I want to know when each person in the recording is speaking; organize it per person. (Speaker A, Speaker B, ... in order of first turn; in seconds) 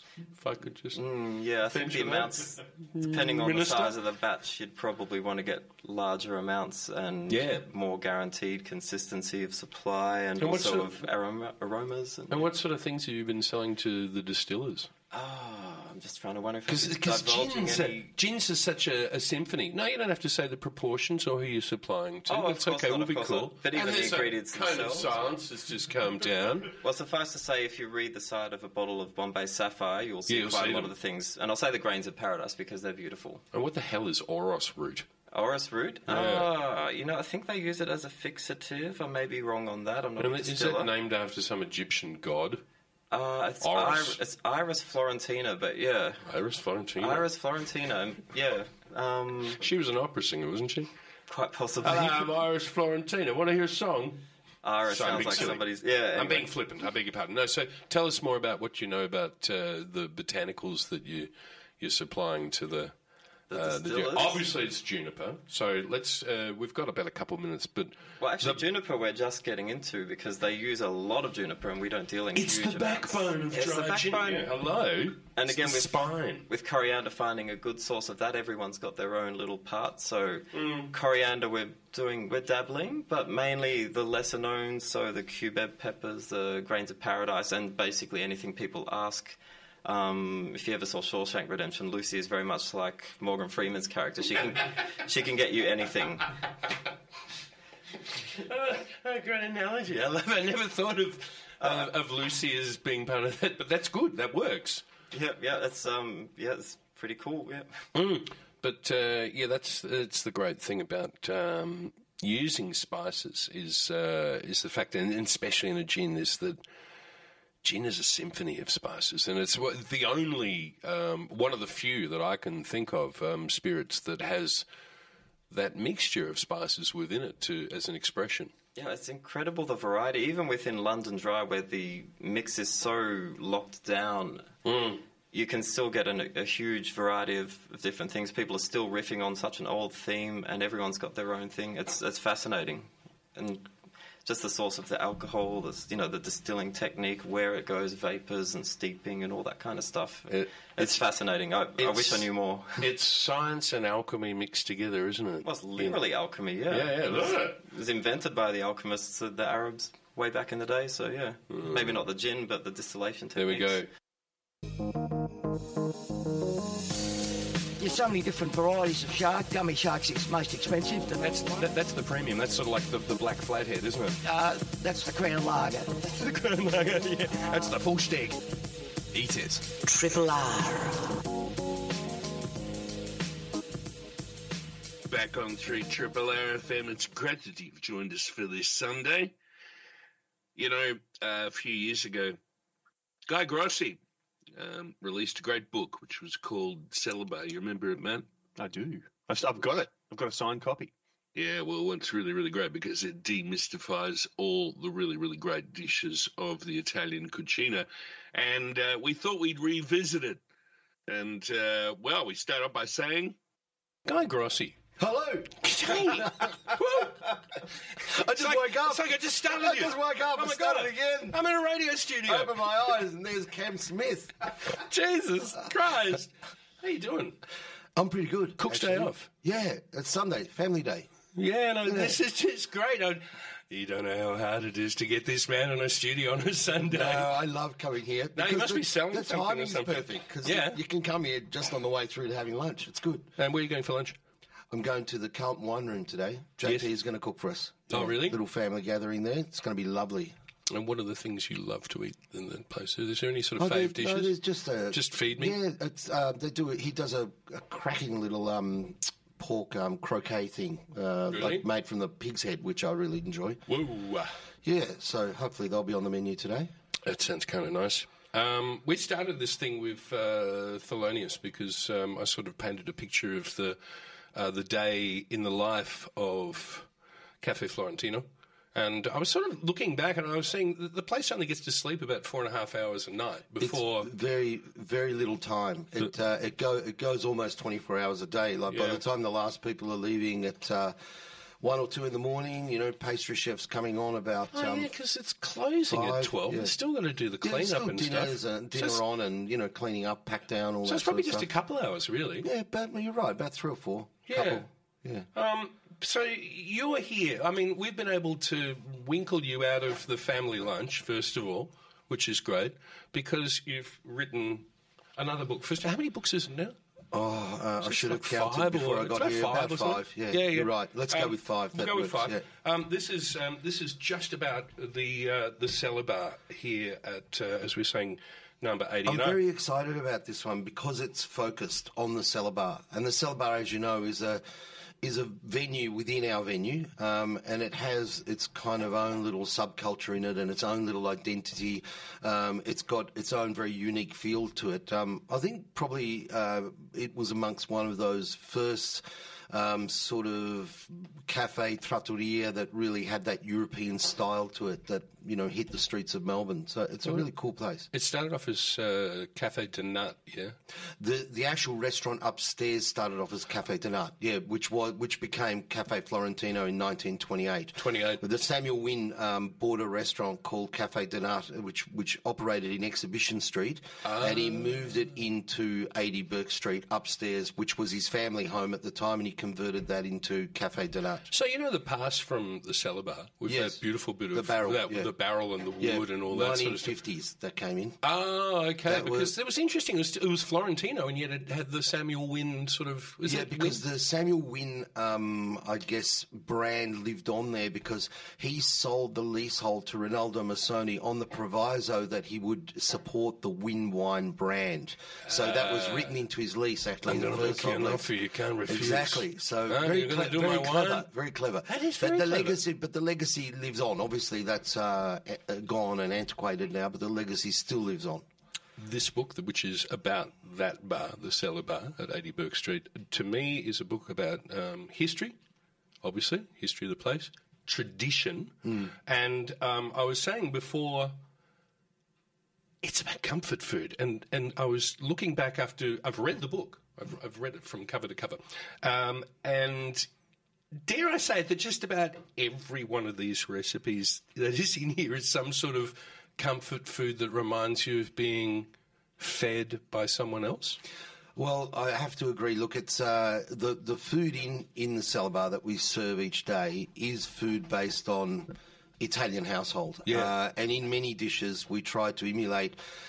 Speaker A: 0.3-1.0, 1.7-2.3, 2.9-3.9, 7.3-7.6, 10.4-10.9, 12.3-14.9, 16.7-26.7, 30.3-30.9, 33.5-35.0, 36.1-36.5, 40.2-42.6, 43.6-44.1, 46.3-47.2, 49.6-50.9, 51.8-54.2, 54.9-62.9, 63.5-68.6, 72.3-76.5, 80.5-80.9, 98.4-104.8, 107.9-116.6, 117.6-124.6, 125.5-128.5, 134.7-135.0, 150.3-150.9, 151.8-152.2, 152.8-155.9, 156.7-157.6, 163.4-163.8, 214.1-214.8, 215.6-217.3, 218.0-222.5, 224.6-227.4, 228.6-229.3, 231.3-237.3, 238.3-240.8, 243.4-244.2, 247.9-248.4, 250.7-254.3, 254.9-255.5, 261.3-261.6, 263.7-264.2, 267.1-273.8, 274.3-276.9, 277.4-284.1, 288.7-289.0, 294.5-299.0, 300.9-302.5, 304.3-304.6, 305.3-316.8, 317.8-329.4, 357.9-360.5, 367.8-368.2, 374.0-374.6, 381.3-386.9, 388.0-393.8, 405.3-406.1, 407.1-411.1, 411.7-412.6, 418.8-425.3, 426.0-431.1, 432.8-440.1, 440.8-450.8
Speaker B: 0.9-12.5, 15.1-18.1, 22.3-25.2, 26.8-33.4, 35.3-40.9, 43.1-46.2, 47.0-49.6, 51.3-52.3, 54.6-56.5, 63.5-64.4, 68.2-74.5, 75.3-96.3, 101.6-101.9, 105.1-107.7, 128.8-134.5, 135.3-143.7, 144.2-152.8, 155.4-163.8
Speaker C: 167.8-171.3, 174.2-176.1, 179.7-181.2
Speaker D: 179.2-179.5, 198.6-200.9
Speaker E: 185.1-189.3, 190.6-192.4, 193.3-194.0, 194.5-198.3, 201.3-210.4, 211.1-213.3
Speaker F: 215.0-216.6, 218.1-221.4, 222.2-224.5, 227.9-231.1, 231.8-232.2, 236.8-243.3, 244.7-250.3, 253.6-263.6, 264.6-266.7, 283.6-290.9, 291.6-294.9, 295.9-296.7, 297.4-301.5, 302.4-305.3, 317.1-322.4, 329.0-334.4, 335.0-357.9, 361.0-381.3, 383.4-385.1, 385.8-388.0, 388.8-389.3, 393.2-408.1, 408.6-418.2, 451.4-462.8